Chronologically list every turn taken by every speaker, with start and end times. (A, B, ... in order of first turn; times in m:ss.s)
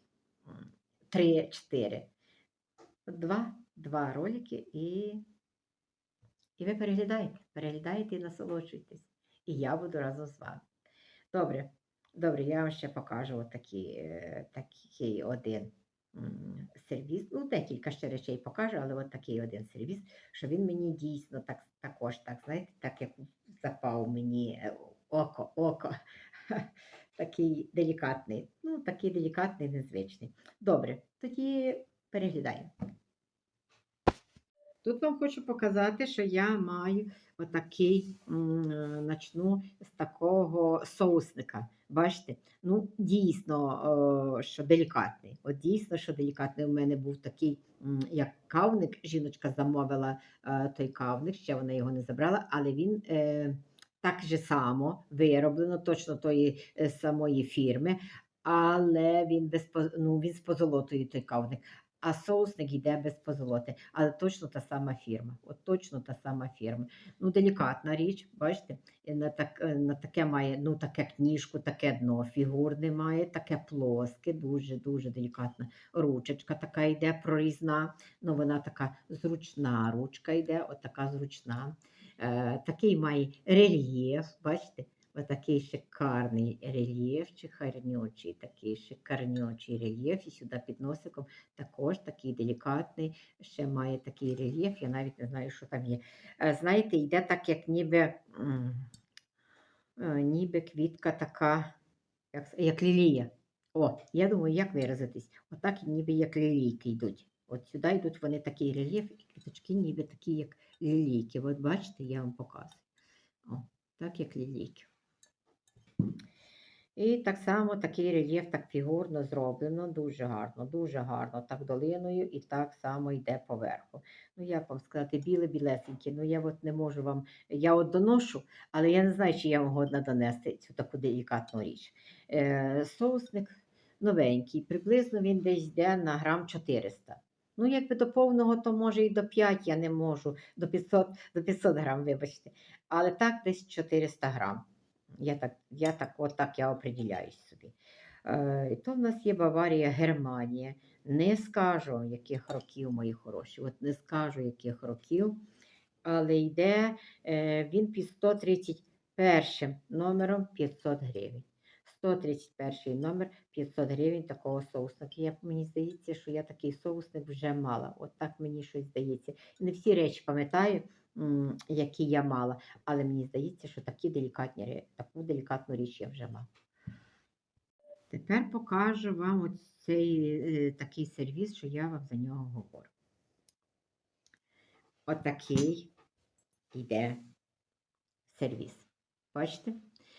0:00.5-0:02.1 A
0:03.1-0:05.2 A
0:06.6-0:10.6 A
0:11.3-0:25.9 A
0:26.5-0:32.7 A
0:34.8-1:38.9 A
1:40.0-1:41.7 A
1:42.3-1:52.8 A
1:53.4-1:54.9 A
1:57.0-2:24.6 A
2:25.2-2:35.4 A
2:36.0-2:56.5 A
2:58.1-3:02.9 A
3:05.1-3:05.9 A
3:06.7-3:07.2 A
3:08.3-3:09.8 A